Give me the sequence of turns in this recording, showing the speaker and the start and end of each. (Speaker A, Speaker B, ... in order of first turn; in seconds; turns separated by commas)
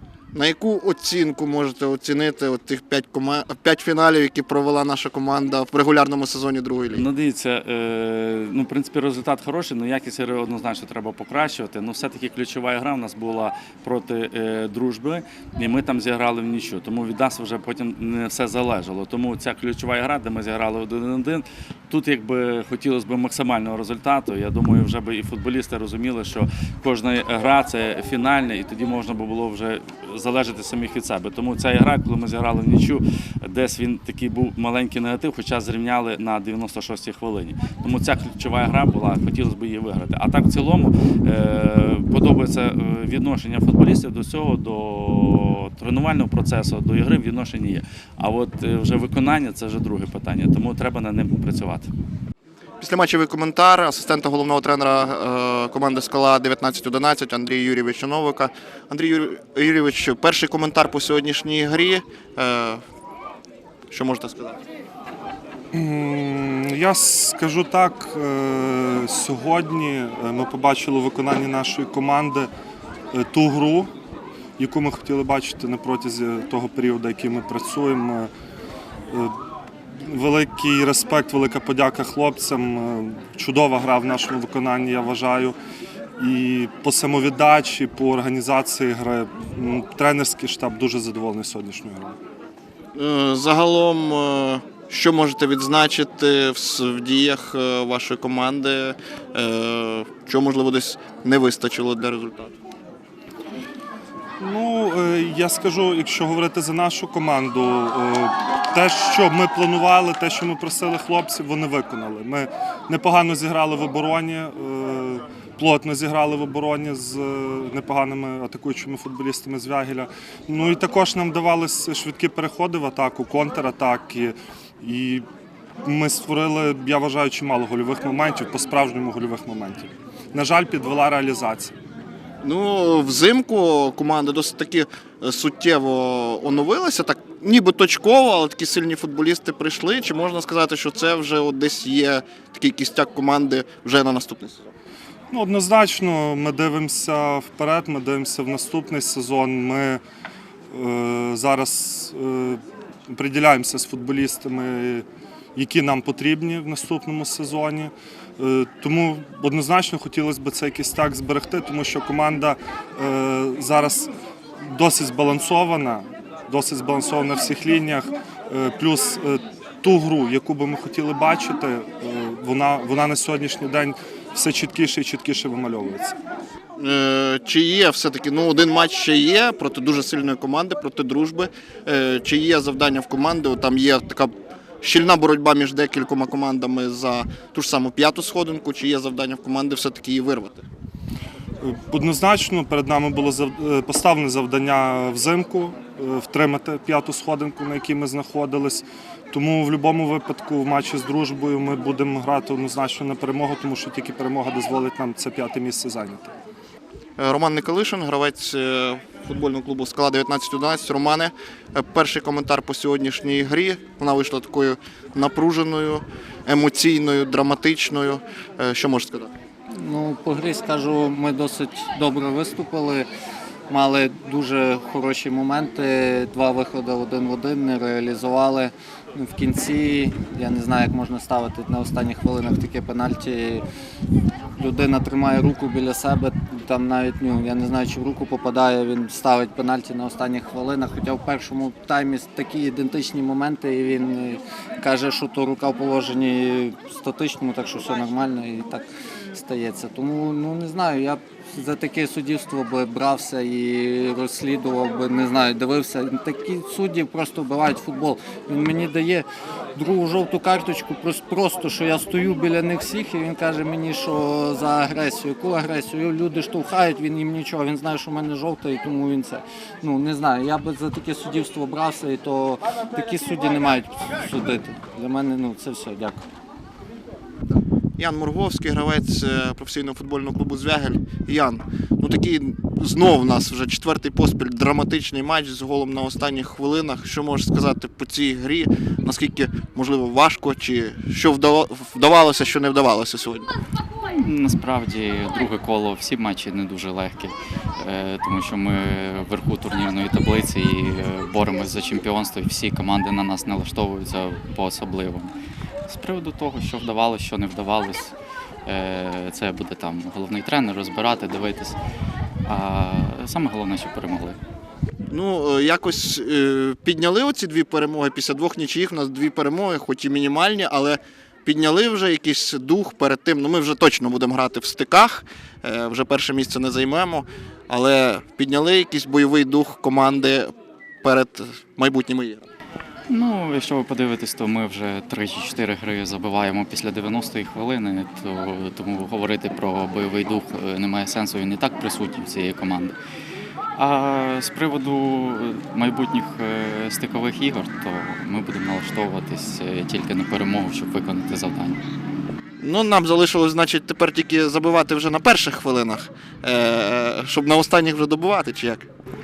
Speaker A: 0.3-7.0, Speaker B: 6.9-51.9, Speaker A: 52.8-62.8, Speaker A: 63.9-64.6, Speaker C: 65.7-72.5, Speaker C: 73.1-73.9, Speaker C: 74.6-78.3, Speaker C: 79.1-79.3, Speaker C: 80.0-85.6, Speaker C: 86.2-92.2, Speaker A: 93.0-102.5, Speaker C: 104.4-125.2, Speaker C: 125.8-131.7, Speaker A: 132.4-144.7, Speaker C: 145.3-150.0, Speaker C: 150.7-155.0, Speaker C: 155.6-164.1, Speaker C: 164.6-176.2, Speaker A: 176.8-190.7, Speaker C: 191.6-206.3, Speaker A: 207.2-219.3, Speaker D: 219.7-223.1, Speaker D: 223.7-233.6, Speaker D: 234.5-276.2, Speaker A: 278.0-293.5, Speaker E: 294.1-305.3, Speaker E: 305.9-308.1, Speaker E: 308.6-311.8, Speaker E: 312.5-314.4, Speaker A: 315.1-332.5, Speaker E: 333.1-342.9, Speaker E: 343.8-351.8, Speaker A: 352.6-358.9